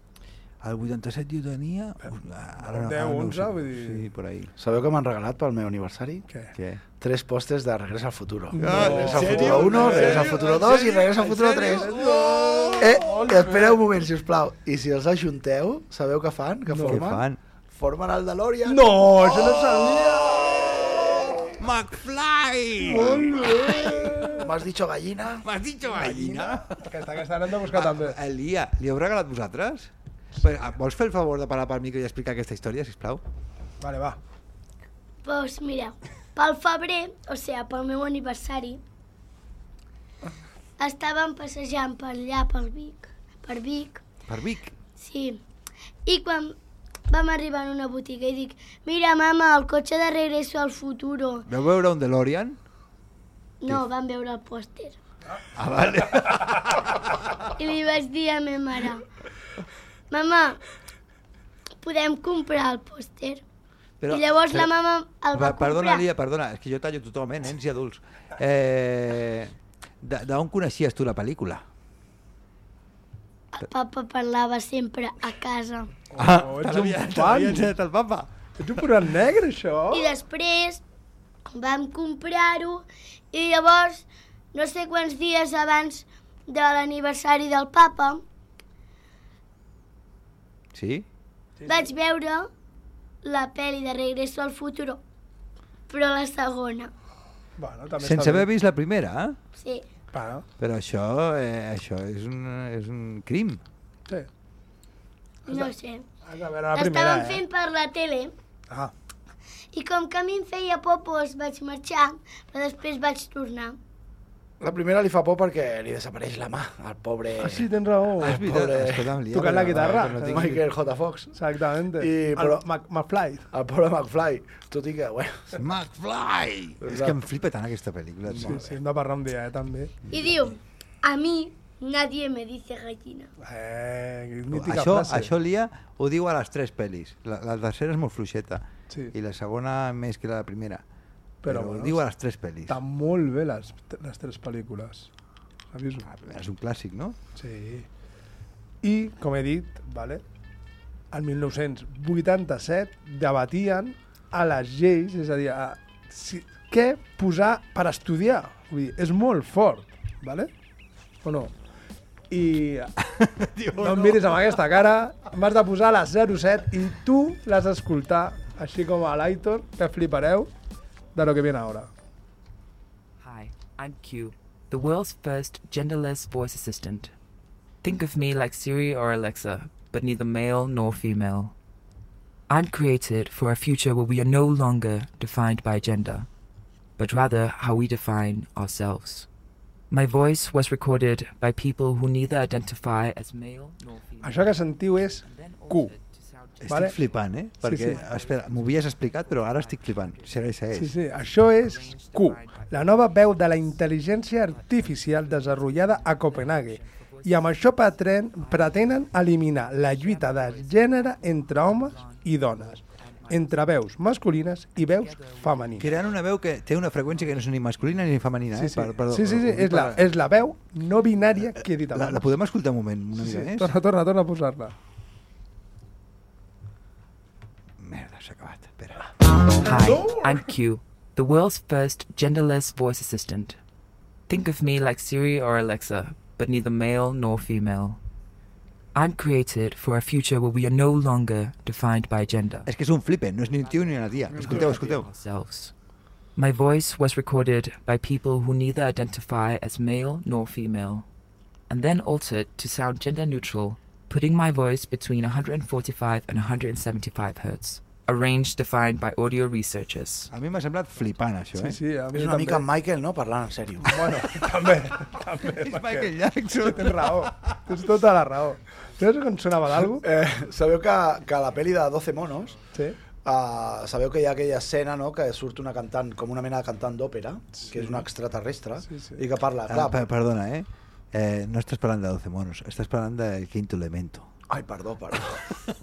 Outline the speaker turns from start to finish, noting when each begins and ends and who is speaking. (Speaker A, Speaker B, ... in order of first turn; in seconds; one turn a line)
Speaker A: 0.6-4.5
Speaker B: 2.1-4.0
Speaker C: 4.6-6.2
Speaker B: 6.3-6.5
Speaker A: 6.5-6.8
Speaker C: 7.0-11.9
Speaker B: 8.5-10.4
Speaker A: 8.6-13.1
Speaker B: 11.2-13.8
Speaker C: 12.8-21.4
Speaker B: 16.7-17.0
Speaker A: 16.9-17.4
Speaker B: 18.7-20.4
Speaker A: 20.6-24.3
Speaker B: 22.8-24.5
Speaker C: 24.3-25.4
Speaker A: 25.4-26.7
Speaker B: 25.9-28.2
Speaker A: 27.7-33.2
Speaker B: 33.8-34.2
Speaker D: 35.2-38.8
Speaker D: 40.8-44.0
Speaker A: 44.3-44.8
Speaker D: 45.0-45.4
Speaker D: 46.1-46.5
Speaker D: 47.1-51.5
Speaker A: 51.5-52.6
Speaker D: 53.6-55.0
Speaker A: 55.6-57.3
Speaker D: 57.6-59.0
Speaker D: 60.1-60.6
Speaker D: 61.8-63.4
Speaker A: 64.0-64.7
Speaker D: 64.1-66.0
Speaker A: 65.3-71.6
Speaker D: 73.5-75.9
Speaker B: 76.1-77.7
Speaker A: 76.2-78.8
Speaker B: 78.6-80.1
Speaker D: 79.9-80.8
Speaker D: 81.5-88.2
Speaker A: 90.7-91.1
Speaker B: 91.6-91.9
Speaker D: 91.7-92.5
Speaker D: 93.2-95.0
Speaker D: 95.9-96.9
Speaker B: 97.6-98.5
Speaker A: 98.0-99.4
Speaker D: 99.6-99.8
Speaker B: 100.1-100.5
Speaker A: 100.6-103.6
Speaker D: 105.5-106.0
Speaker B: 106.2-107.4
Speaker D: 106.8-108.3
Speaker D: 109.7-113.8
Speaker C: 114.6-117.7
Speaker B: 117.4-118.6
Speaker C: 118.2-119.1
Speaker A: 118.2-120.6
Speaker B: 119.3-120.6
Speaker C: 119.9-121.4
Speaker B: 121.3-123.5
Speaker C: 122.0-122.6
Speaker C: 123.5-125.6
Speaker A: 125.5-128.6
Speaker C: 126.8-127.2
Speaker B: 128.3-129.9
Speaker C: 128.3-128.6
Speaker D: 130.1-133.3
Speaker B: 133.4-135.3
Speaker A: 134.5-140.8
Speaker B: 141.4-142.0
Speaker A: 141.4-142.8
Speaker B: 142.7-145.1
Speaker B: 145.7-146.1
Speaker A: 146.1-147.2
Speaker B: 147.4-147.9
Speaker B: 148.8-150.2
Speaker B: 151.1-160.5
Speaker B: 161.2-161.5
Speaker B: 162.3-162.9
Speaker A: 163.0-164.6
Speaker B: 163.8-170.5
Speaker B: 171.2-171.9
Speaker E: 173.2-177.1
Speaker E: 177.8-181.5
Speaker E: 182.5-186.3
Speaker E: 187.0-189.3
Speaker E: 189.9-213.8
Speaker B: 194.2-195.9
Speaker A: 196.6-200.9
Speaker B: 196.7-196.9
Speaker B: 197.6-198.0
Speaker B: 200.7-212.8
Speaker B: 213.3-215.9
Speaker E: 214.7-218.3
Speaker A: 215.8-220.1
Speaker B: 218.5-222.2
Speaker A: 221.4-223.7
Speaker B: 223.2-224.7
Speaker A: 227.8-229.1
Speaker E: 229.6-233.6
Speaker B: 229.7-230.5
Speaker E: 234.3-238.0
Speaker E: 238.9-242.7
Speaker A: 242.7-245.1
Speaker E: 243.4-245.8
Speaker E: 246.3-251.1
Speaker E: 251.7-260.3
Speaker A: 260.3-261.8
Speaker B: 261.6-262.6
Speaker C: 262.1-264.3
Speaker B: 263.9-270.1
Speaker A: 265.4-267.6
Speaker C: 270.0-272.6
Speaker C: 273.2-280.0
Speaker B: 277.6-278.0
Speaker B: 278.9-279.2
Speaker A: 279.7-284.3
Speaker C: 284.5-285.4